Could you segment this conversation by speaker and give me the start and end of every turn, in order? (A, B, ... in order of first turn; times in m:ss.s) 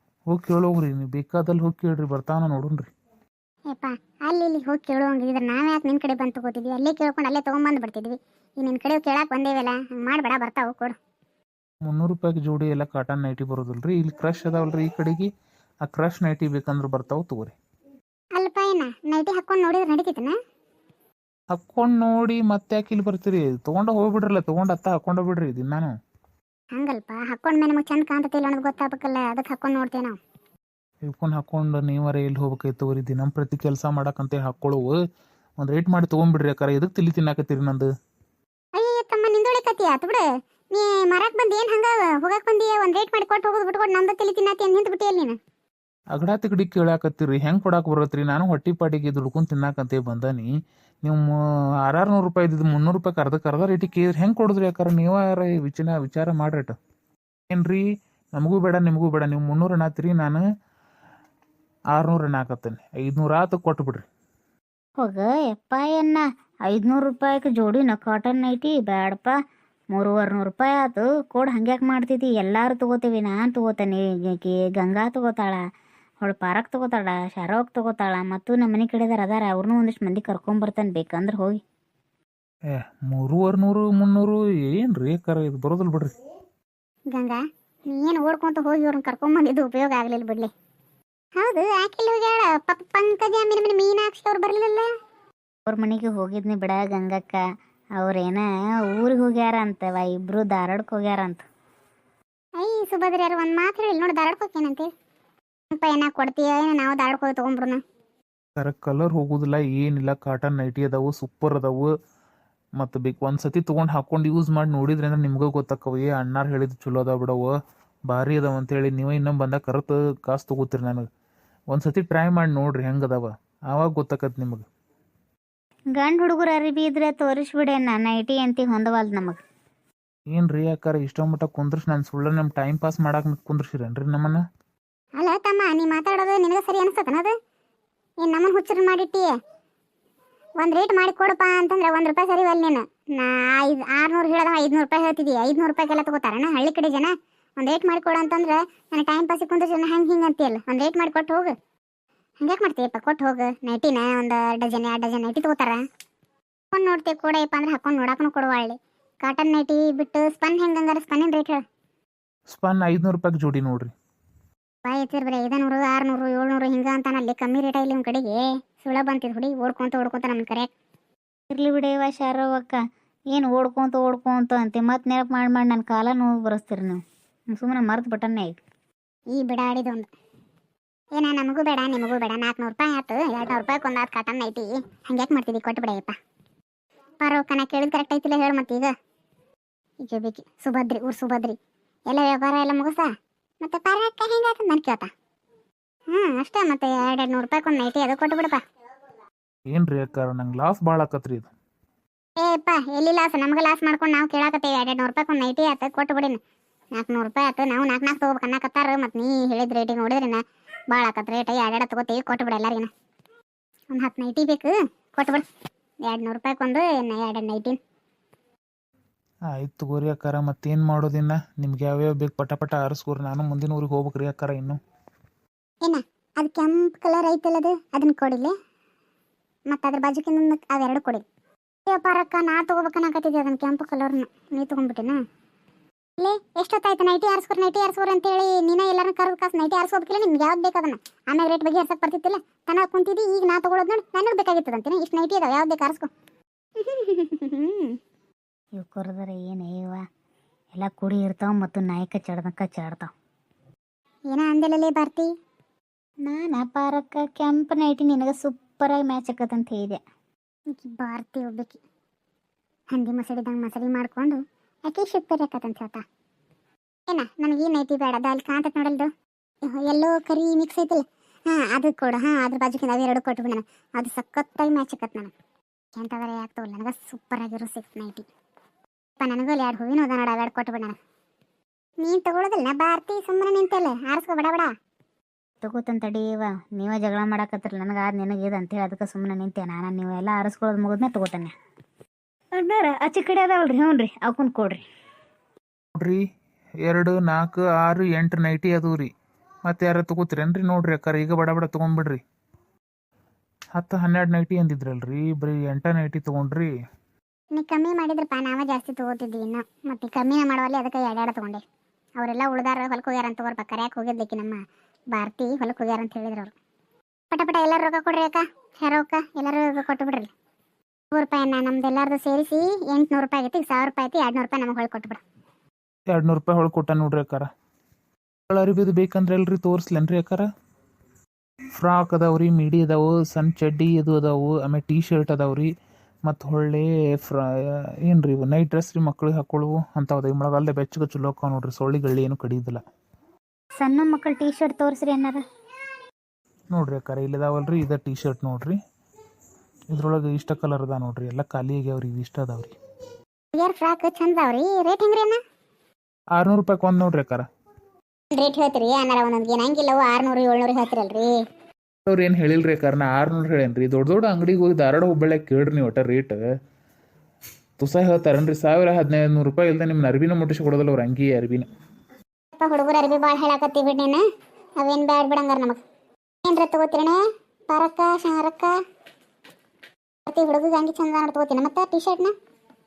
0:00.3-0:02.9 A
0:03.7-0:11.0 B
0:11.8-0:15.3 A
0:15.8-0:17.6 A
0:18.4-0:20.4 B
0:21.5-0:25.9 A
0:26.8-0:30.2 B
0:31.0-0:35.0 A
0:35.6-0:37.9 A
0:38.8-0:45.4 B
0:46.1-0:50.5 A
0:51.0-0:56.8 A
0:57.5-0:57.8 A
0:58.3-1:00.4 A
1:01.9-1:04.0 A
1:05.0-1:09.3 C
1:09.9-1:15.6 C
1:16.2-1:21.6 C
1:22.7-1:26.1 A
1:27.1-1:30.5 B
1:31.4-1:34.9 B
1:35.7-1:37.4 C
1:38.0-1:41.4 C
1:42.6-1:44.9 B
1:45.7-1:47.8 B
1:48.6-1:51.9 A
1:52.8-1:57.6 A
1:58.1-2:01.1 A
2:01.7-2:04.6 A
2:06.0-2:09.4 C
2:10.3-2:14.4 A
2:15.2-2:17.3 B
2:18.2-2:19.3 B
2:20.6-2:31.5 B
2:32.4-2:35.8 B
2:36.7-2:41.6 B
2:42.5-2:43.9 A
2:44.8-2:50.7 B
2:51.5-2:57.0 C
2:57.5-2:58.6 C
2:59.3-3:00.1 B
3:01.2-3:06.2 B
3:07.2-3:08.9 B
3:10.0-3:11.6 B
3:12.1-3:13.1 B
3:13.6-3:15.1 B
3:16.1-3:18.6 B
3:19.7-3:21.5 A
3:22.4-3:26.4 B
3:27.0-3:32.9 B
3:33.9-3:35.4 B
3:36.0-3:37.8 B
3:39.5-3:44.8 A
3:45.8-3:48.5 B
3:49.7-3:51.2 B
3:51.9-3:55.2 B
3:56.2-4:06.1 B
4:06.8-4:08.0 B
4:08.8-4:10.0 C
4:10.7-4:13.1 C
4:14.3-4:15.3 B
4:16.2-4:20.0 C
4:20.7-4:21.8 B
4:22.9-4:26.0 B
4:27.1-4:29.1 B
4:29.7-4:35.3 B
4:36.0-4:38.3 B
4:39.2-4:41.0 B
4:42.0-4:44.7 B
4:45.6-4:51.5 C
4:52.5-4:54.8 C
4:56.0-4:56.2 A
4:56.8-4:59.1 A
4:59.6-5:02.2 A
5:03.8-5:06.7 A
5:07.5-5:11.6 B
5:12.2-5:14.6 B
5:15.1-5:16.5 B
5:17.3-5:20.3 B
5:21.1-5:25.2 B
5:26.1-5:27.5 A
5:28.5-5:30.5 A
5:31.8-5:35.7 A
5:36.3-5:42.8 A
5:43.8-5:45.4 C
5:46.7-5:48.8 A
5:49.9-5:52.8 A
5:53.5-5:55.4 B
5:56.4-5:57.5 A
5:58.3-6:01.4 B
6:02.1-6:06.4 A
6:07.8-6:11.7 A
6:12.6-6:14.2 B
6:14.8-6:15.8 B
6:16.4-6:18.8 B
6:20.3-6:22.3 B